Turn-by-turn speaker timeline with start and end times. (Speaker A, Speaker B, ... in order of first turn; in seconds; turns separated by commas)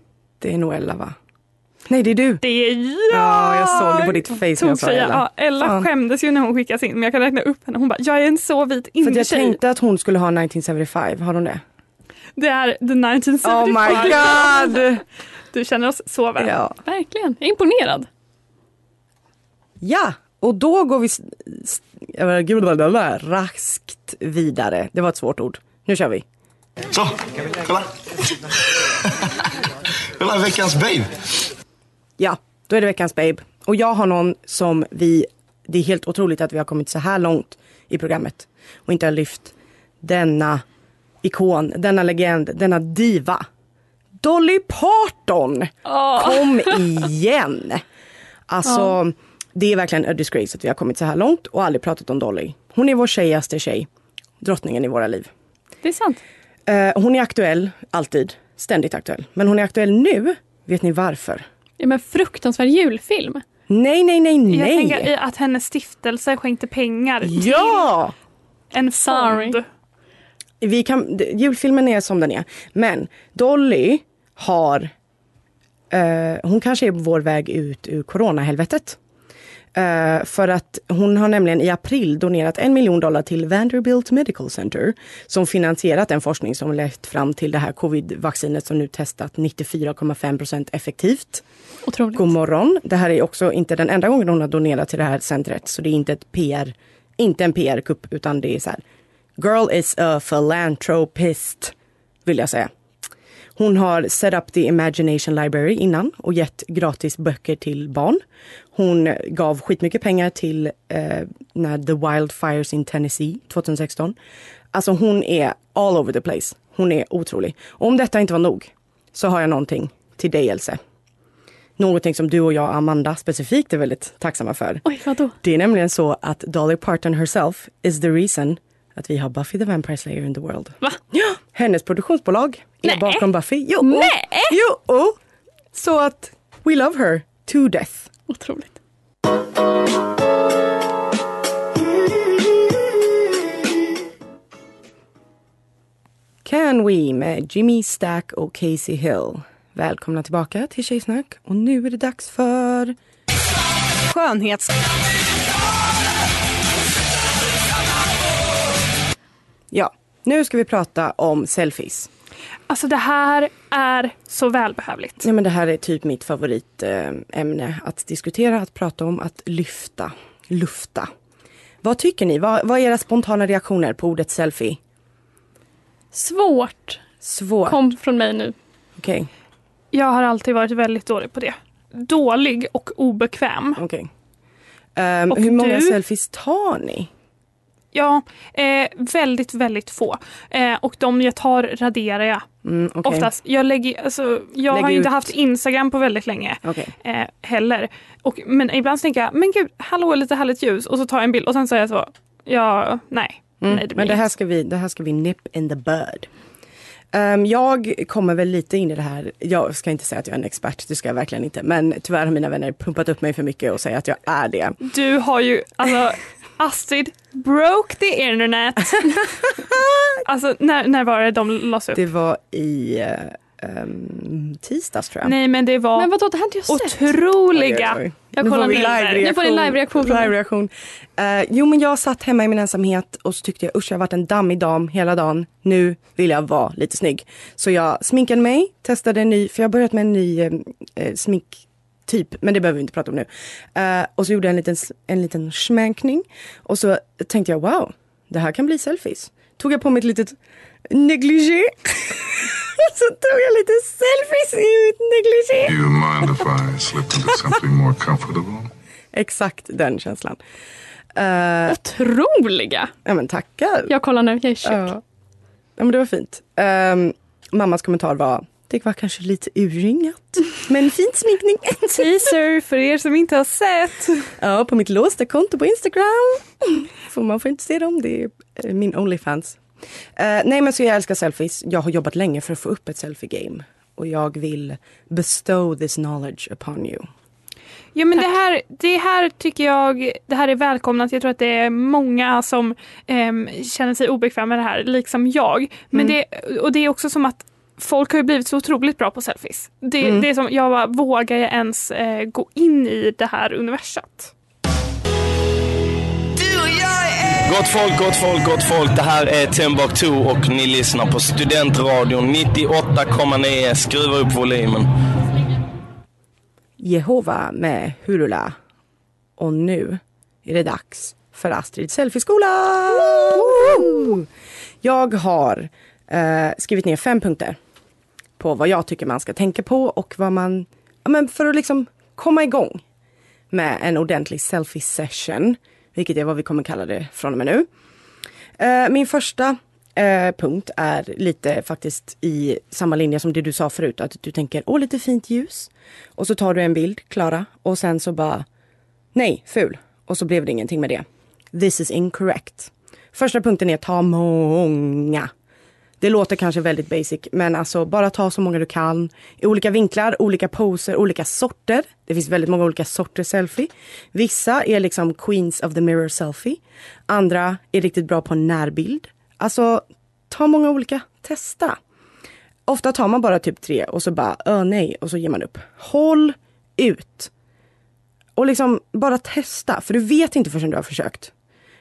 Speaker A: 0.4-1.2, Speaker A: 1.9-2.4, Speaker B: 2.4-9.6, Speaker A: 3.1-5.9, Speaker A: 9.0-11.6, Speaker B: 12.4-14.8, Speaker A: 13.4-15.0, Speaker B: 15.5-16.6, Speaker A: 16.4-16.8, Speaker C: 16.9-18.1, Speaker A: 19.8-26.2, Speaker D: 26.9-27.9, Speaker D: 30.2-31.1, Speaker A: 32.2-40.6, Speaker A: 41.2-43.4, Speaker A: 44.2-47.8, Speaker C: 45.9-46.8, Speaker A: 48.5-53.9, Speaker C: 48.7-48.9, Speaker A: 54.4-55.3, Speaker C: 55.8-56.2, Speaker A: 56.7-61.5, Speaker C: 61.8-63.4, Speaker A: 63.7-65.1, Speaker B: 64.5-67.9, Speaker A: 67.2-68.2, Speaker B: 68.7-69.7, Speaker C: 69.0-69.6, Speaker A: 70.6-74.9, Speaker A: 75.9-79.0, Speaker A: 79.7-91.4, Speaker C: 91.9-92.3, Speaker A: 92.2-98.8, Speaker A: 99.4-101.7, Speaker A: 102.2-102.7, Speaker A: 103.6-108.2, Speaker A: 108.7-114.2, Speaker A: 114.7-120.8, Speaker A: 121.8-124.8, Speaker C: 124.8-125.4, Speaker A: 125.4-135.2, Speaker C: 132.8-133.3, Speaker C: 133.8-134.6, Speaker A: 135.7-138.1, Speaker C: 138.3-138.8, Speaker A: 146.4-153.0, Speaker A: 159.7-162.1, Speaker B: 162.7-165.3, Speaker A: 165.2-171.1, Speaker A: 171.8-174.8, Speaker C: 176.1-177.0, Speaker A: 177.2-177.9, Speaker C: 177.7-178.6, Speaker A: 179.0-179.3, Speaker B: 179.9-183.8, Speaker A: 183.8-184.1, Speaker A: 185.0-187.1, Speaker B: 185.3-186.0, Speaker B: 187.9-192.5, Speaker A: 192.7-193.3, Speaker B: 193.0-204.2, Speaker A: 194.7-195.1, Speaker A: 196.6-196.9, Speaker A: 203.6-206.3, Speaker A: 207.1-214.8, Speaker B: 214.8-219.5, Speaker A: 219.6-220.2, Speaker B: 220.2-222.1, Speaker A: 221.9-225.3, Speaker B: 225.2-226.1, Speaker C: 226.0-227.1, Speaker B: 226.7-229.2, Speaker A: 227.5-250.4, Speaker C: 228.4-230.3, Speaker A: 250.9-255.7, Speaker E: 255.7-258.7, Speaker A: 259.1-260.4, Speaker A: 261.1-261.8, Speaker C: 261.7-262.9, Speaker A: 263.1-263.9, Speaker C: 263.9-264.9, Speaker A: 264.6-265.0, Speaker A: 265.8-272.3, Speaker B: 271.9-274.3, Speaker A: 274.4-279.6, Speaker A: 280.2-287.1, Speaker B: 287.9-304.3, Speaker A: 300.0-300.3, Speaker F: 306.4-314.9, Speaker A: 316.8-318.6, Speaker A: 319.4-324.3, Speaker A: 324.8-327.6, Speaker A: 328.4-332.8, Speaker A: 333.5-337.7, Speaker A: 338.6-348.5, Speaker A: 349.1-355.3, Speaker A: 356.0-371.8, Speaker A: 372.7-377.3, Speaker A: 378.4-381.3